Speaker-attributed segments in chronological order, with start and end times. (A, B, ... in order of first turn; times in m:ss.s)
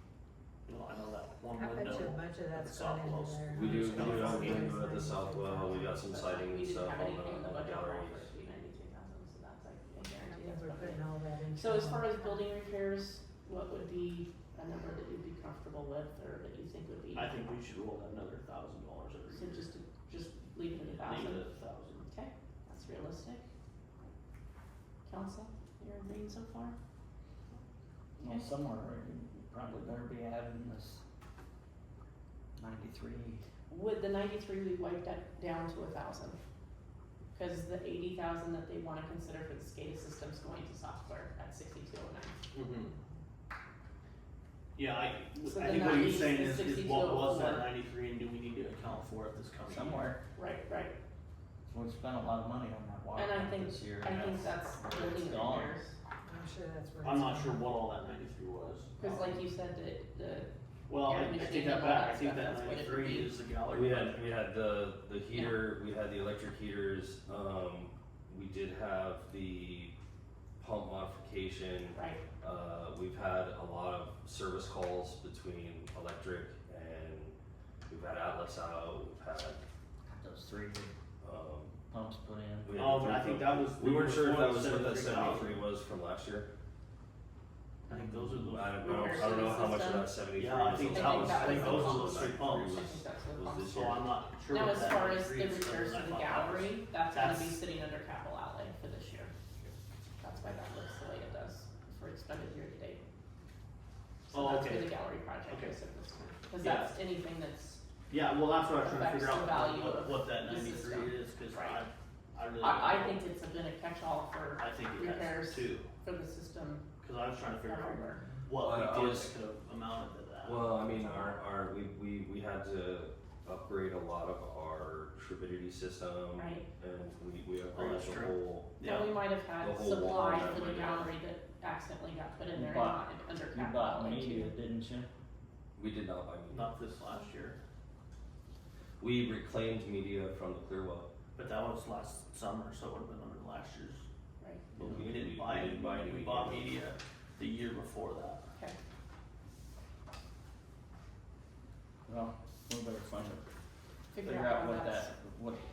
0:00.6-0:04.7 A
0:01.5-0:06.0 B
0:03.5-0:08.3 C
0:06.0-0:11.0 D
0:10.2-0:12.4 B
0:11.6-0:17.4 D
0:17.1-0:19.7 A
0:19.3-0:21.4 D
0:21.0-0:22.0 A
0:22.0-0:23.4 D
0:25.0-0:26.8 D
0:28.2-0:31.0 E
0:28.2-0:28.5 D
0:32.6-0:33.4 E
0:33.7-0:36.4 D
0:37.3-0:42.4 D
0:42.5-0:42.9 A
0:44.7-0:50.1 A
0:45.4-0:47.7 D
0:49.6-0:50.2 E
0:50.3-0:50.9 D
0:51.7-0:55.7 E
0:53.2-0:55.9 D
0:56.2-0:57.7 B
0:57.0-0:59.3 A
0:59.0-1:03.3 D
1:00.9-1:04.2 A
1:03.7-1:09.9 C
1:10.6-1:17.3 C
1:11.9-1:12.2 D
1:17.9-1:19.6 C
1:20.1-1:20.9 E
1:21.2-1:21.8 C
1:21.9-1:22.8 E
1:22.6-1:26.5 C
1:22.8-1:25.6 A
1:27.9-1:29.3 A
1:27.9-1:28.4 E
1:28.5-1:34.0 C
1:28.8-1:30.1 D
1:30.4-1:32.8 A
1:30.8-1:33.9 D
1:33.7-1:37.6 A
1:34.5-1:39.3 D
1:40.2-1:43.0 D
1:44.3-1:47.8 D
1:44.3-1:44.9 A
1:45.5-1:45.7 A
1:46.6-1:46.9 A
1:48.1-1:53.2 A
1:48.8-1:51.8 D
1:52.6-1:56.9 D
1:54.6-1:55.9 A
1:57.0-2:00.7 A
1:57.6-1:58.2 D
1:58.6-1:59.4 C
2:00.4-2:08.8 C
2:00.9-2:01.4 D
2:06.4-2:06.6 D
2:07.7-2:09.1 A
2:08.8-2:14.5 D
2:09.6-2:11.1 C
2:12.5-2:15.1 E
2:15.8-2:16.8 C
2:16.5-2:17.6 A
2:19.0-2:21.1 C
2:21.4-2:24.0 A
2:24.4-2:24.6 D
2:24.7-2:26.8 C
2:24.8-2:28.4 A
2:32.0-2:33.4 E
2:34.1-2:35.1 D
2:34.2-2:35.6 E